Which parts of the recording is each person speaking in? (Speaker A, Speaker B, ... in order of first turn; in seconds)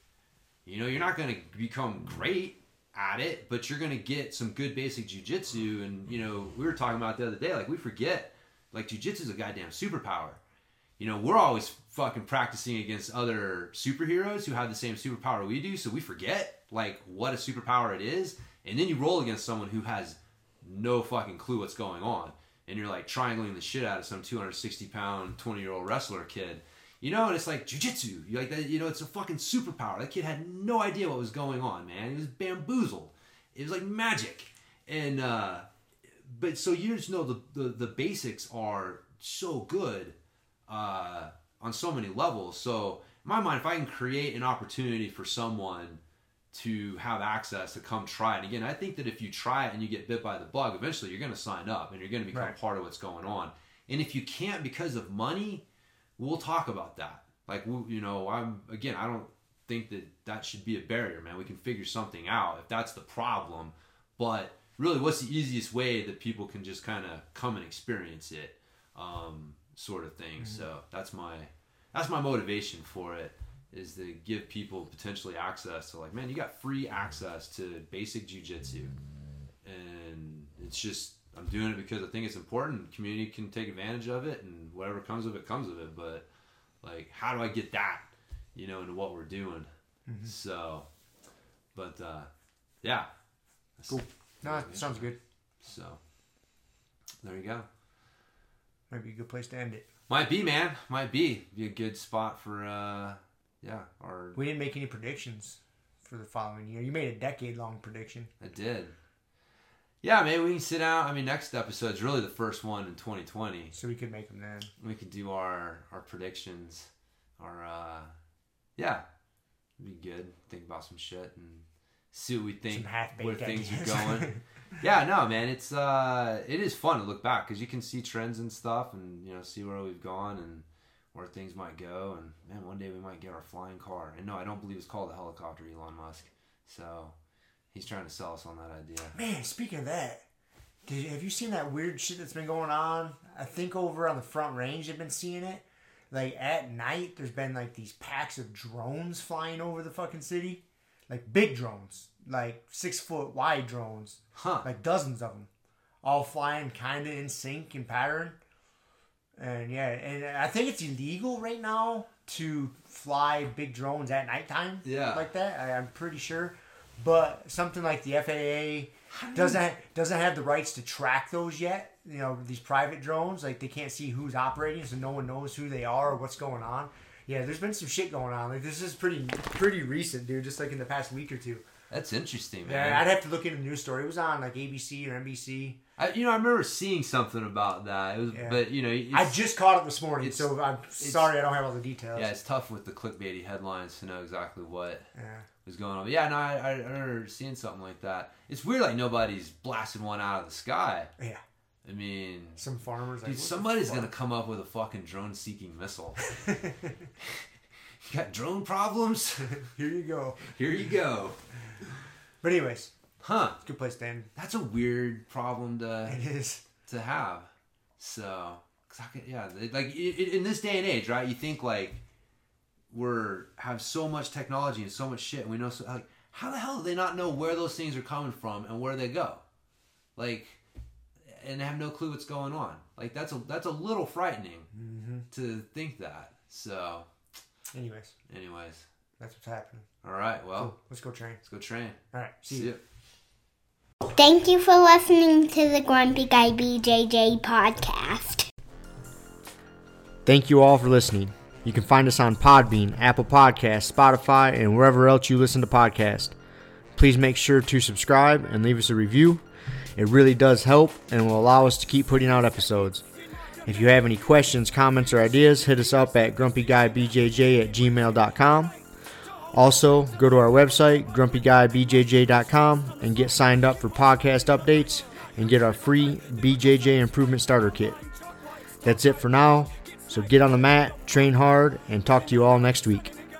Speaker A: 0.6-10.4, 11.0-40.1, 40.7-46.0, 46.5-55.6, 56.2-78.9, 79.6-86.2, 86.8-89.7, 90.2-90.8, 91.7-92.3, 92.8-93.1, 93.8-95.1, 95.6-96.0, 97.2-97.7, 100.1-104.4, 108.4-108.9, 110.0-113.7, 114.8-118.1, 118.8-119.0, 119.8-137.2, 137.7-139.1, 154.3-154.7, 164.8-165.3, 169.1-169.6, 181.9-183.1, 186.0-189.4, 190.2-191.3, 192.1-195.1, 195.6-201.1, 201.8-202.6, 203.2-206.2, 207.2-207.5, 208.0-209.6, 210.4-211.4, 213.2-213.6, 214.3-216.2, 216.8-222.0, 222.9-229.4, 230.2-230.6, 231.2-234.7, 235.3-237.1, 238.3-238.9, 240.0-240.7, 241.4-242.8
Speaker B: 90.1-90.3, 93.9-95.2, 98.9-99.8, 104.3-108.3, 113.7-114.7, 122.7-124.4, 139.1-140.2, 140.8-155.5, 156.0-158.4, 159.4-181.7, 182.6-185.8, 188.3-192.3, 195.1-195.5, 202.6-204.1, 206.2-206.9, 209.5-210.6, 212.4-212.9, 213.6-214.3, 216.1-216.7, 234.7-235.3, 237.7-238.1, 239.2-239.9, 240.6-241.4, 242.1-242.7, 250.2-256.4, 256.9-259.4, 260.0-263.0, 263.6-268.7, 269.5-278.0, 278.8-283.1
Speaker C: 244.0-248.5